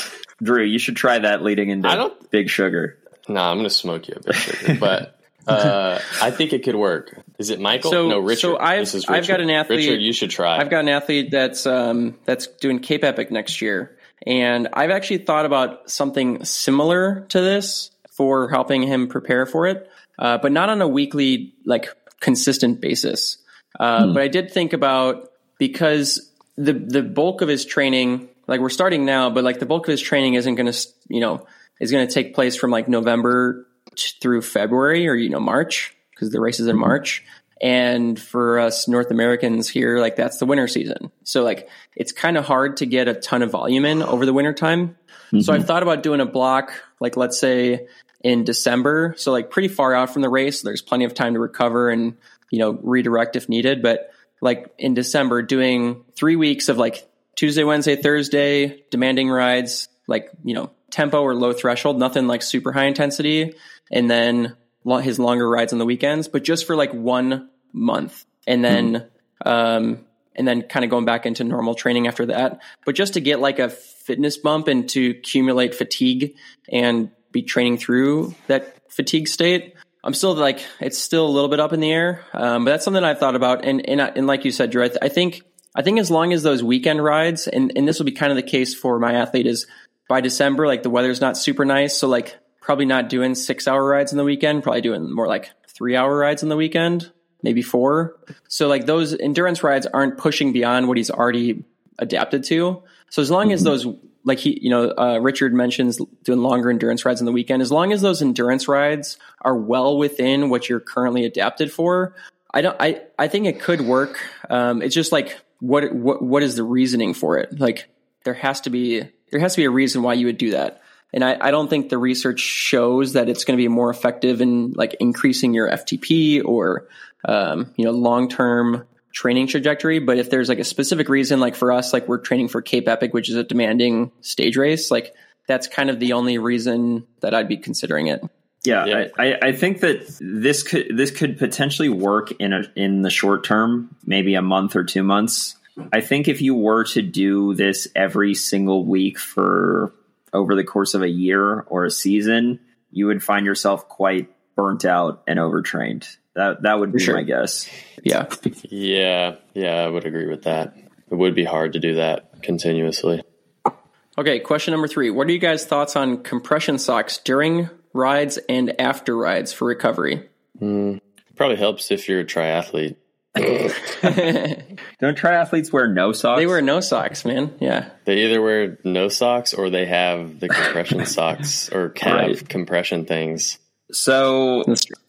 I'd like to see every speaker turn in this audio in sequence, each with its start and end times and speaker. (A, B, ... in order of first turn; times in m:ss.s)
0:00.4-0:03.0 A
0:01.8-0:02.2 B
0:03.3-0:10.7 B
0:07.8-0:10.0 C
0:10.5-2:18.2 C
0:45.3-0:45.7 A
1:43.4-1:43.7 A
2:18.6-2:37.7 A
2:36.9-2:37.2 C
2:38.0-2:38.3 C
2:38.6-2:43.2 B
2:44.2-2:50.2 C
2:50.6-2:53.8 B
2:54.0-2:54.6 C
2:55.0-2:56.6 A
2:56.4-2:57.9 C
2:58.0-3:03.6 B
3:02.0-3:02.4 A
3:03.9-3:04.7 A
3:04.6-3:04.9 C